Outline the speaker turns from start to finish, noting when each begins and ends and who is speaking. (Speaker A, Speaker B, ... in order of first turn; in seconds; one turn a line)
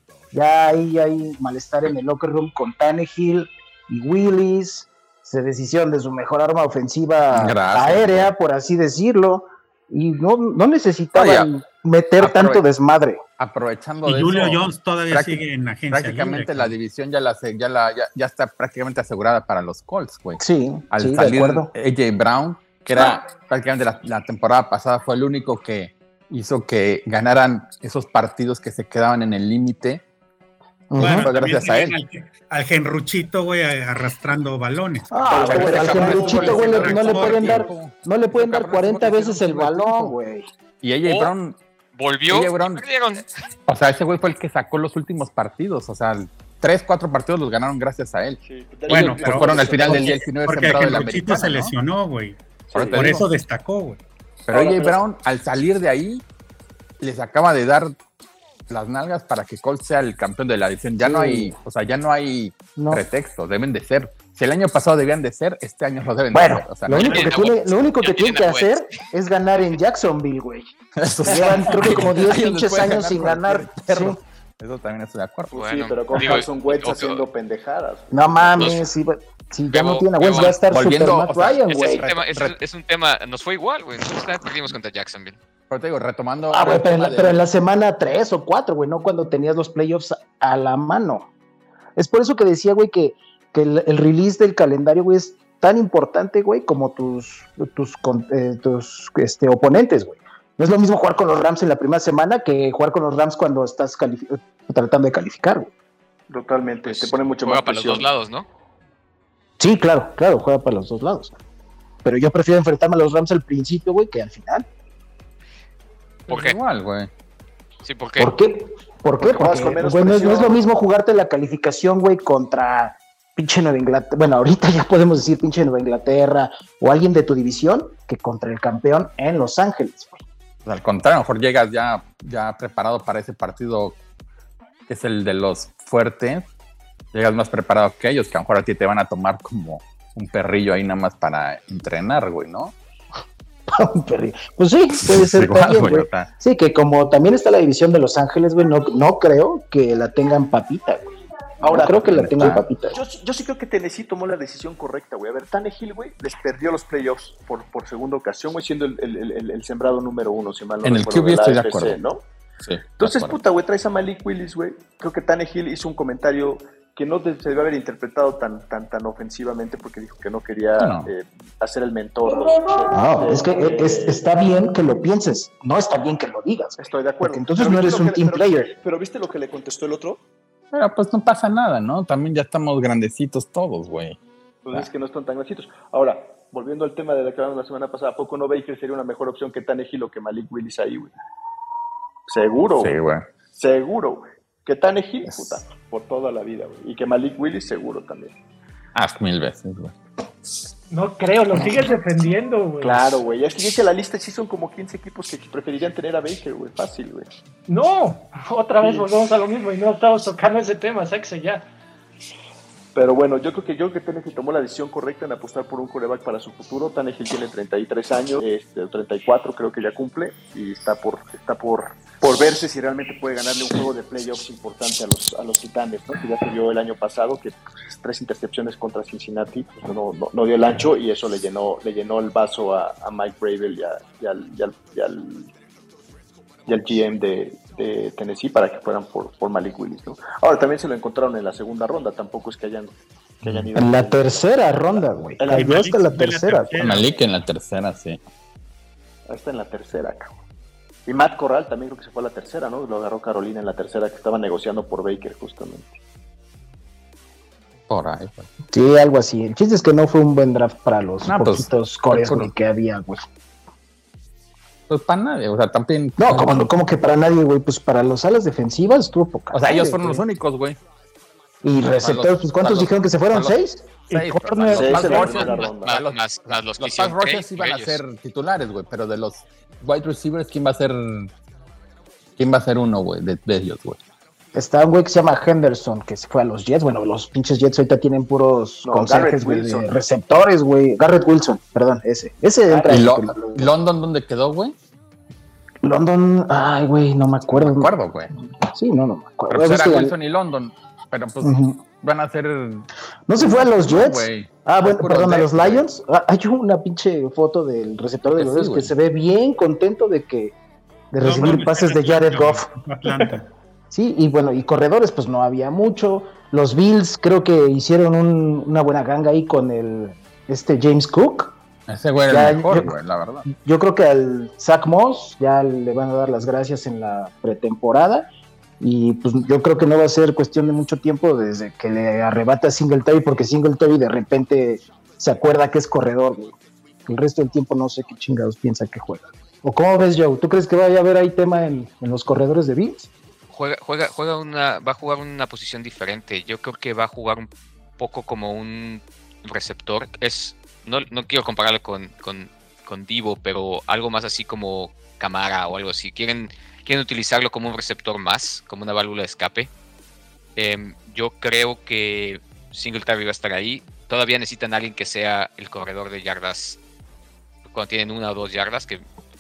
Speaker A: 0.3-13.2
Speaker B: 7.3-8.3
Speaker B: 11.2-11.5
Speaker B: 12.2-12.6
Speaker B: 13.4-30.0
Speaker C: 14.0-16.8
Speaker A: 20.4-21.7
Speaker A: 30.9-31.3
Speaker B: 31.0-32.0
Speaker C: 31.0-37.6
Speaker A: 35.1-40.5
Speaker D: 35.3-37.7
Speaker B: 35.3-40.2
Speaker B: 40.8-41.6
Speaker E: 41.0-41.3
Speaker E: 42.0-43.3
Speaker B: 42.3-42.8
Speaker B: 43.7-51.7
Speaker D: 48.4-50.2
Speaker C: 48.9-54.0
Speaker D: 52.7-53.1
Speaker B: 52.7-53.2
Speaker B: 54.5-56.2
Speaker D: 54.5-55.0
Speaker B: 57.0-58.0
Speaker B: 58.7-67.5
Speaker A: 61.0-61.5
Speaker A: 62.8-63.0
Speaker A: 66.3-70.7
Speaker E: 67.0-68.8
Speaker B: 71.0-75.5
Speaker A: 71.2-74.2
Speaker D: 75.5-78.7
Speaker E: 75.5-77.3
Speaker B: 76.1-76.4
Speaker A: 78.1-82.1
Speaker E: 78.6-78.9
Speaker E: 79.7-80.6
Speaker B: 80.7-82.5
Speaker E: 81.7-85.4
Speaker B: 85.7-87.5
Speaker A: 86.5-91.3
Speaker A: 92.0-105.7
Speaker D: 106.3-108.1
Speaker E: 106.8-108.5
Speaker A: 109.6-111.3
Speaker A: 112.0-114.7
Speaker E: 116.3-116.6
Speaker B: 116.3-117.1
Speaker E: 117.8-118.3
Speaker A: 118.2-130.2
Speaker D: 119.2-120.6
Speaker B: 130.7-134.0
Speaker B: 134.9-136.5
Speaker B: 137.1-142.8
Speaker A: 143.7-153.0
Speaker B: 145.1-146.3
Speaker D: 151.6-162.2
Speaker B: 151.8-152.6
Speaker B: 160.8-162.0
Speaker B: 162.6-163.4
Speaker D: 163.0-174.2
Speaker B: 170.8-171.1
Speaker A: 172.9-178.7
Speaker D: 176.8-180.2
Speaker B: 180.7-184.2
Speaker D: 184.7-191.1
Speaker D: 192.3-192.9
Speaker B: 192.8-193.3
Speaker D: 193.5-198.4
Speaker B: 195.3-195.6
Speaker B: 198.9-199.9
Speaker F: 200.9-203.1
Speaker B: 201.5-201.9
Speaker D: 202.8-207.3
Speaker F: 207.7-211.7
Speaker D: 208.8-209.1
Speaker D: 212.9-235.5
Speaker D: 236.7-245.9
Speaker B: 243.4-243.7
Speaker A: 243.8-246.8
Speaker C: 245.5-247.3
Speaker B: 246.8-248.2
Speaker D: 249.3-250.3
Speaker D: 251.1-256.0
Speaker B: 257.9-258.5
Speaker A: 258.7-263.3
Speaker B: 261.2-262.5
Speaker B: 264.9-266.7
Speaker A: 266.2-270.2
Speaker B: 269.5-270.8
Speaker A: 271.6-275.4
Speaker B: 272.0-273.6
Speaker B: 274.1-281.3
Speaker D: 274.8-276.0
Speaker E: 275.4-278.0
Speaker B: 282.4-284.0
Speaker A: 284.5-293.8
Speaker D: 288.8-290.0
Speaker D: 292.7-293.1
Speaker B: 292.9-294.8
Speaker A: 295.8-297.9
Speaker B: 297.5-298.3
Speaker A: 298.7-300.1
Speaker B: 299.5-305.8
Speaker A: 301.4-301.8
Speaker A: 303.3-310.6
Speaker B: 308.4-308.9
Speaker A: 311.1-312.7
Speaker C: 311.2-313.5
Speaker A: 313.9-321.6
Speaker B: 321.9-323.5
Speaker A: 322.3-322.9
Speaker A: 323.5-328.3
Speaker A: 328.8-343.1
Speaker E: 343.5-359.7
Speaker E: 360.6-366.8
Speaker E: 367.7-369.0